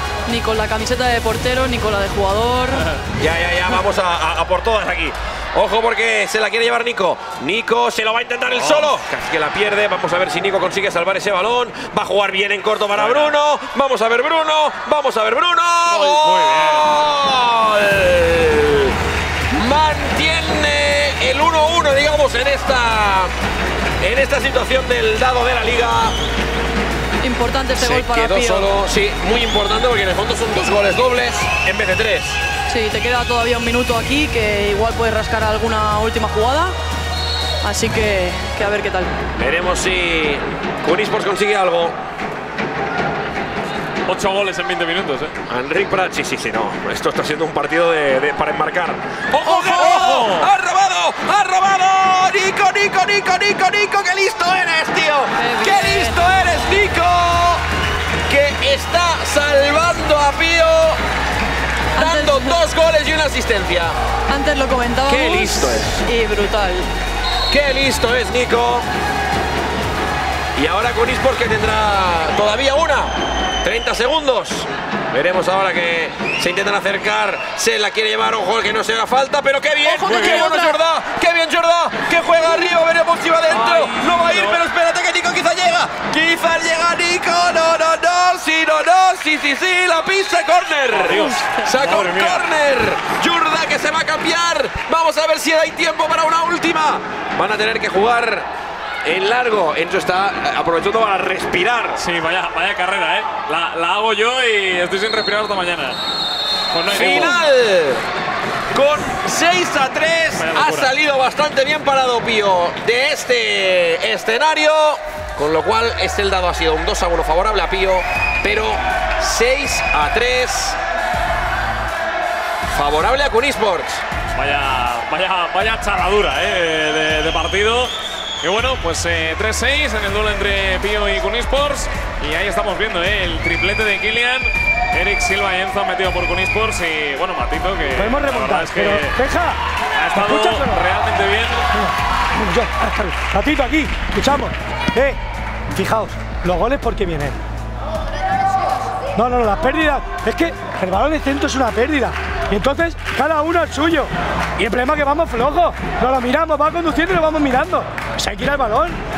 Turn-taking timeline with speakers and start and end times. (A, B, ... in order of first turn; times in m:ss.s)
0:00.3-0:02.9 A
0:03.2-0:18.9 B
0:08.5-0:08.9 C
0:12.9-0:13.3 C
0:15.9-0:16.2 A
0:16.2-0:16.9 C
0:19.5-0:23.3 B
0:24.0-0:26.1 B
0:27.2-0:28.7 A
0:27.7-0:32.4 B
0:32.7-0:36.7 A
0:37.6-0:39.1 A
0:39.3-0:42.0 B
0:44.0-0:45.3 C
0:45.5-0:57.6 B
0:49.4-0:50.1 A
0:49.7-0:50.5 C
0:55.3-0:56.2 A
0:58.3-1:01.0 B
1:02.0-1:02.6 A
1:02.0-1:04.0 B
1:04.3-1:06.9 A
1:05.0-1:06.0 B
1:07.5-1:08.8 B
1:10.6-1:38.4 B
1:19.8-1:20.8 A
1:20.0-1:20.6 C
1:23.5-1:24.6 C
1:30.9-1:32.5 C
1:31.0-1:31.6 A
1:39.0-1:42.0 B
1:42.0-1:46.0 C
1:46.7-1:47.4 C
1:46.9-1:48.0 B
1:48.7-2:00.8 B
1:50.4-1:50.9 C
2:02.7-2:04.0 B
2:04.3-2:19.2 C
2:17.9-2:19.6 D
2:19.9-2:21.7 C
2:20.1-2:20.8 D
2:21.7-2:25.2 D
2:25.7-2:27.4 D
2:29.2-2:39.0 D